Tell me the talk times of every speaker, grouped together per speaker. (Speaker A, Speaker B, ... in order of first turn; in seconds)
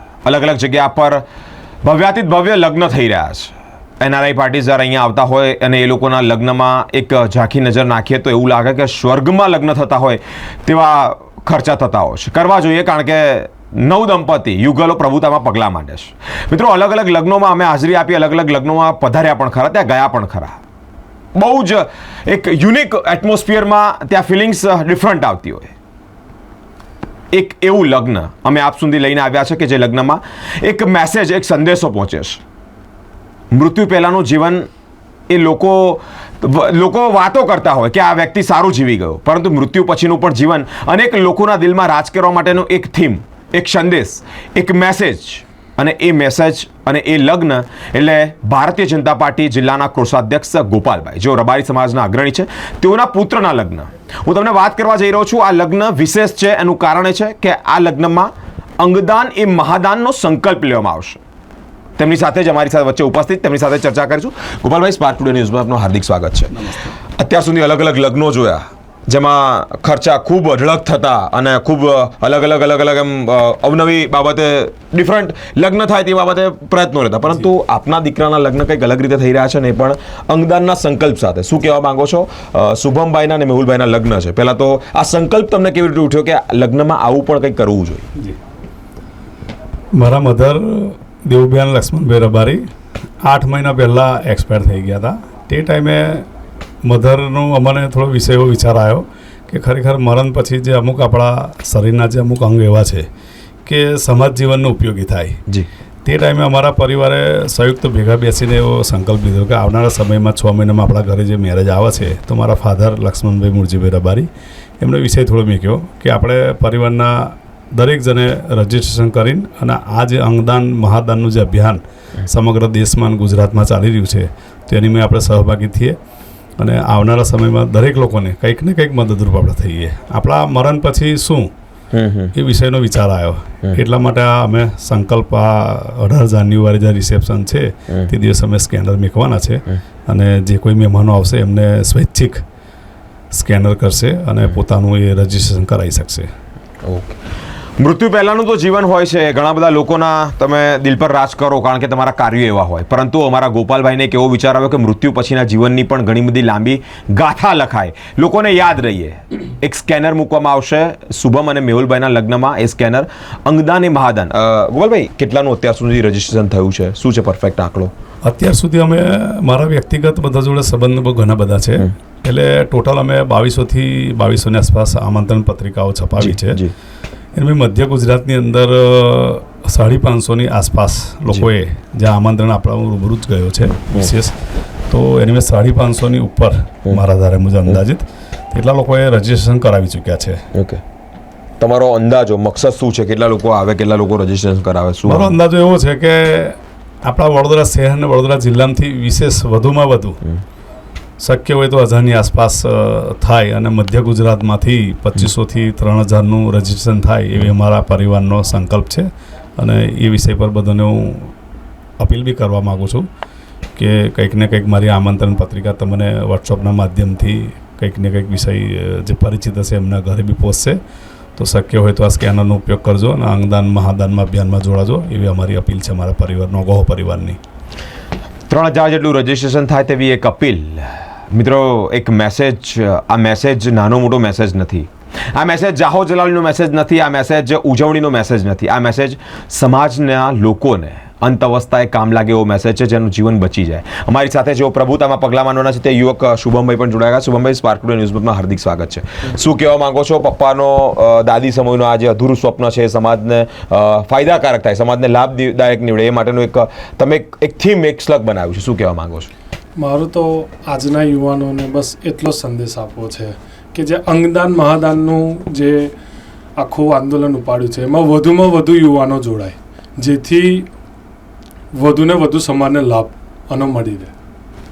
Speaker A: 0.2-1.2, 1.8-20.6, 21.4-25.7, 27.3-32.4, 33.5-34.7, 35.3-61.2, 62.0-88.1, 131.9-132.3, 146.8-147.2, 147.8-167.9, 176.2-176.7, 190.5-190.8, 191.6-195.4, 228.5-259.3
Speaker B: 90.0-92.6, 93.2-96.3, 96.8-103.1, 103.7-105.4, 106.0-114.3, 114.8-126.0, 126.6-131.5, 132.3-142.4, 143.3-146.3, 168.2-176.6, 177.4-184.3, 184.9-190.5, 195.1-200.2, 201.2-209.1, 209.6-211.3, 212.0-213.1, 213.8-220.8, 221.4-227.4
Speaker C: 259.8-265.9, 266.6-270.7, 271.8-274.1